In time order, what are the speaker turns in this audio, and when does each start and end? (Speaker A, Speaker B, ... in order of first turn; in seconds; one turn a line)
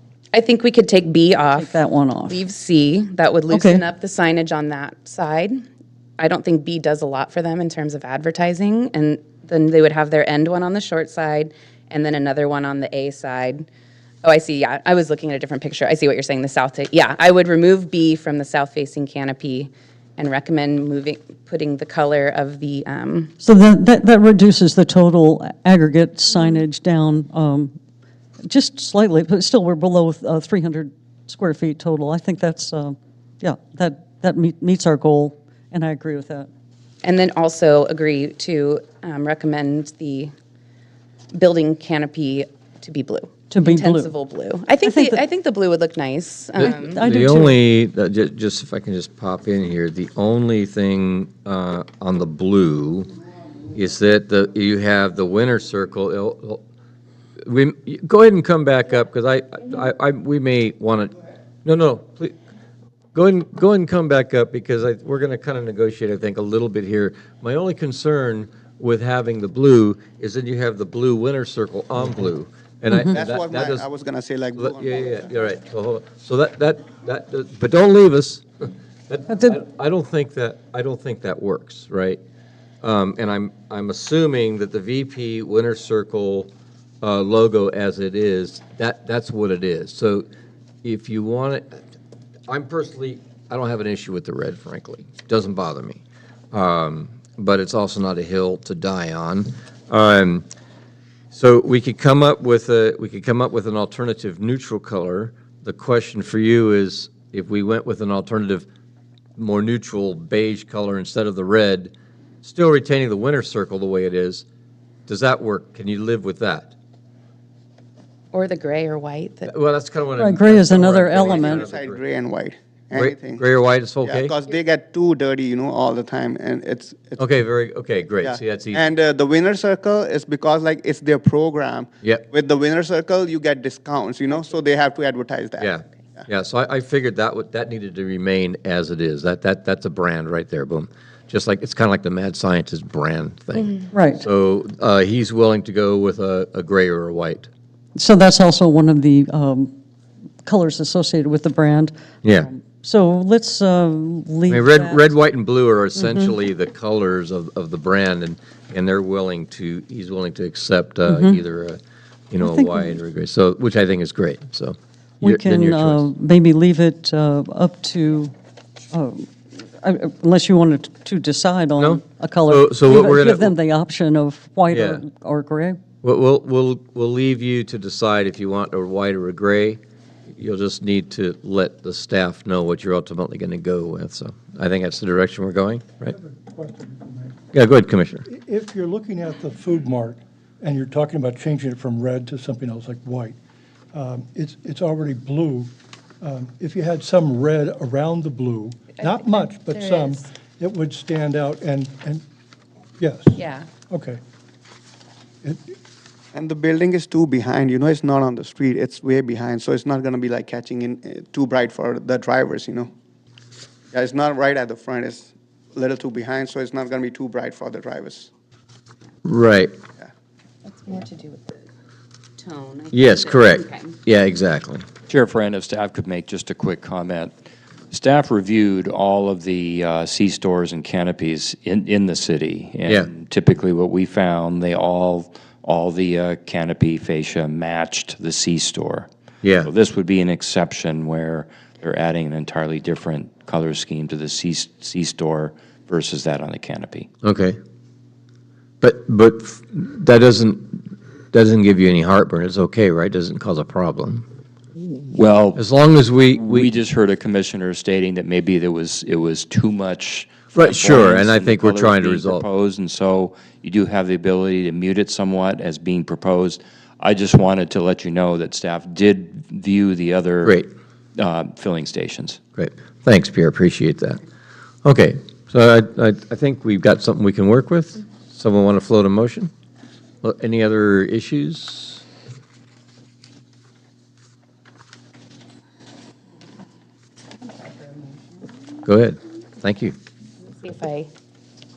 Speaker A: 0.3-5.6
Speaker B: 1.6-2.4
Speaker B: 3.5-3.8
Speaker A: 6.2-13.7
Speaker A: 14.2-23.3
Speaker B: 23.4-27.7
Speaker B: 28.4-36.5
Speaker A: 37.0-40.3
Speaker A: 41.3-47.0
Speaker B: 43.5-44.1
Speaker B: 44.9-45.2
Speaker B: 46.6-47.6
Speaker C: 47.0-53.1
Speaker C: 53.7-56.6
Speaker C: 57.4-62.4
Speaker C: 63.1-73.8
Speaker D: 73.1-75.1
Speaker C: 74.6-78.4
Speaker C: 79.1-82.2
Speaker B: 79.3-79.6
Speaker C: 82.8-86.5
Speaker C: 87.0-90.3
Speaker C: 90.8-91.8
Speaker C: 92.5-96.0
Speaker C: 96.5-100.5
Speaker C: 101.3-108.7
Speaker C: 109.4-111.9
Speaker C: 112.4-114.5
Speaker C: 115.1-116.7
Speaker A: 118.3-119.5
Speaker C: 119.5-122.0
Speaker B: 120.2-121.7
Speaker D: 121.2-123.5
Speaker C: 123.0-124.3
Speaker D: 124.0-127.3
Speaker C: 127.2-128.8
Speaker D: 128.2-136.3
Speaker C: 135.6-147.5
Speaker B: 143.9-144.3
Speaker B: 147.9-149.7
Speaker B: 150.4-155.1
Speaker C: 152.2-152.5
Speaker C: 154.5-166.0
Speaker B: 156.0-156.3
Speaker B: 161.1-161.4
Speaker B: 162.4-163.0
Speaker B: 165.2-168.3
Speaker B: 168.9-175.8
Speaker C: 171.8-173.5
Speaker C: 174.7-175.0
Speaker C: 176.0-179.8
Speaker C: 180.4-186.1
Speaker E: 186.1-187.4
Speaker C: 187.5-188.2
Speaker E: 188.2-193.4
Speaker E: 193.9-202.2
Speaker A: 198.9-200.2
Speaker E: 203.0-204.2
Speaker A: 203.4-203.7
Speaker E: 205.4-205.8
Speaker D: 206.3-212.9
Speaker D: 213.9-218.3
Speaker C: 219.3-219.7
Speaker A: 220.7-221.7
Speaker A: 222.4-223.9
Speaker C: 222.9-224.9
Speaker F: 225.1-227.3
Speaker F: 227.9-239.1
Speaker C: 239.4-239.7
Speaker F: 239.6-247.1
Speaker C: 247.2-247.6
Speaker C: 248.8-250.8
Speaker C: 251.3-254.2
Speaker F: 255.1-255.7
Speaker C: 255.6-256.7
Speaker F: 256.4-270.6
Speaker C: 260.5-262.4
Speaker F: 271.2-272.4
Speaker C: 272.6-274.2
Speaker C: 274.9-279.5
Speaker C: 280.2-282.0
Speaker A: 287.6-288.1
Speaker C: 288.9-289.9
Speaker A: 290.5-291.1